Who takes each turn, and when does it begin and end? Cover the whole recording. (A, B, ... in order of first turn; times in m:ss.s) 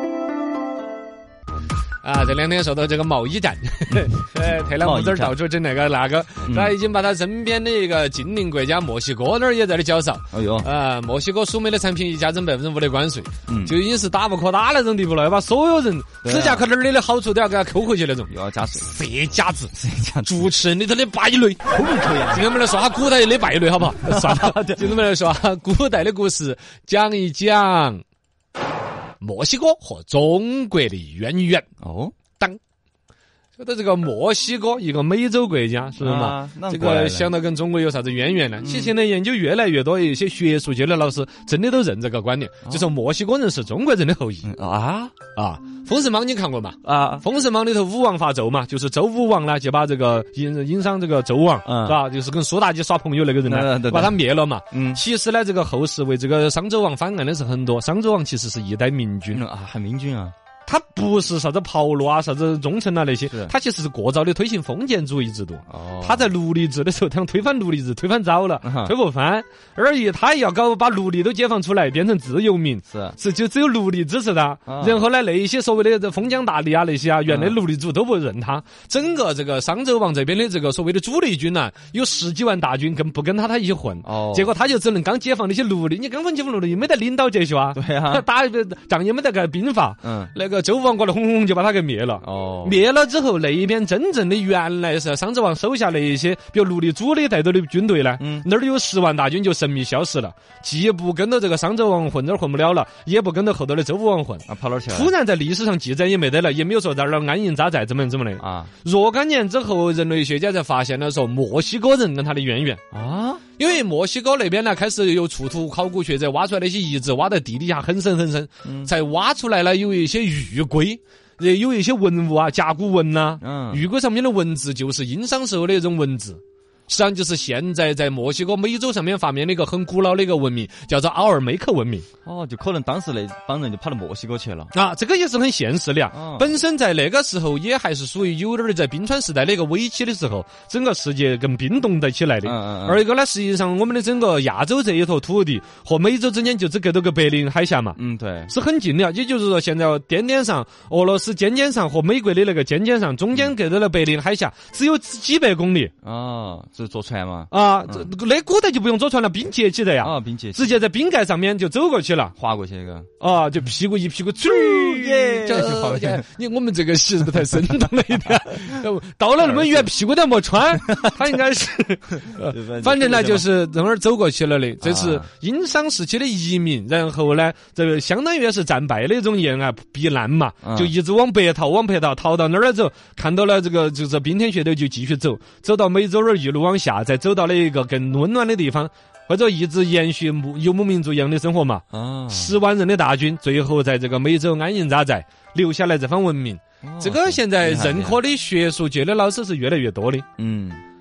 0:02.0-0:28.0 A
0:04.8-0:05.4 B
0:06.4-0:06.8 B
0:10.3-0:10.7 B
0:13.5-0:13.8 B
0:16.2-0:16.7 B
0:18.3-0:18.9 B
0:19.7-0:20.6 B
0:21.7-0:22.5 B
0:24.0-0:24.9 B
0:29.2-0:31.7 A
0:31.8-0:32.1 B
0:33.6-0:44.5 A
0:36.0-0:37.3 B
0:38.6-0:38.9 B
0:42.6-0:42.9 B
0:44.4-0:45.1 B
0:45.3-0:59.4 A
0:46.8-0:47.2 B
0:51.6-0:52.0 B
0:53.4-0:55.0 B
0:59.3-1:00.3 B
1:00.6-1:52.8 A
1:03.3-1:03.5 B
1:05.7-1:06.3 B
1:08.6-1:09.0 B
1:12.9-1:13.2 B
1:14.7-1:15.0 B
1:17.2-1:17.6 B
1:24.0-1:24.5 B
1:27.7-1:28.2 B
1:30.0-1:30.3 B
1:32.2-1:32.8 B
1:38.2-1:38.5 B
1:44.5-1:45.1 B
1:48.4-1:48.7 B
1:52.9-1:53.4 B
1:53.6-2:12.0 A
1:58.6-1:58.9 B
2:03.4-2:03.9 B
2:12.2-2:14.7 B
2:14.7-2:35.9 A
2:16.1-2:16.6 B
2:22.4-2:23.0 B
2:28.0-2:28.5 B
2:36.0-2:38.1 B
2:37.5-2:42.3 A
2:40.0-2:40.8 B
2:42.4-2:43.1 B
2:43.2-3:20.3 A
2:44.4-2:46.2 B
2:49.4-2:49.9 B
2:52.2-2:53.5 B
2:54.8-2:55.3 B
3:00.6-3:00.9 B
3:11.9-3:12.6 B
3:16.8-3:18.2 B
3:20.4-3:20.8 B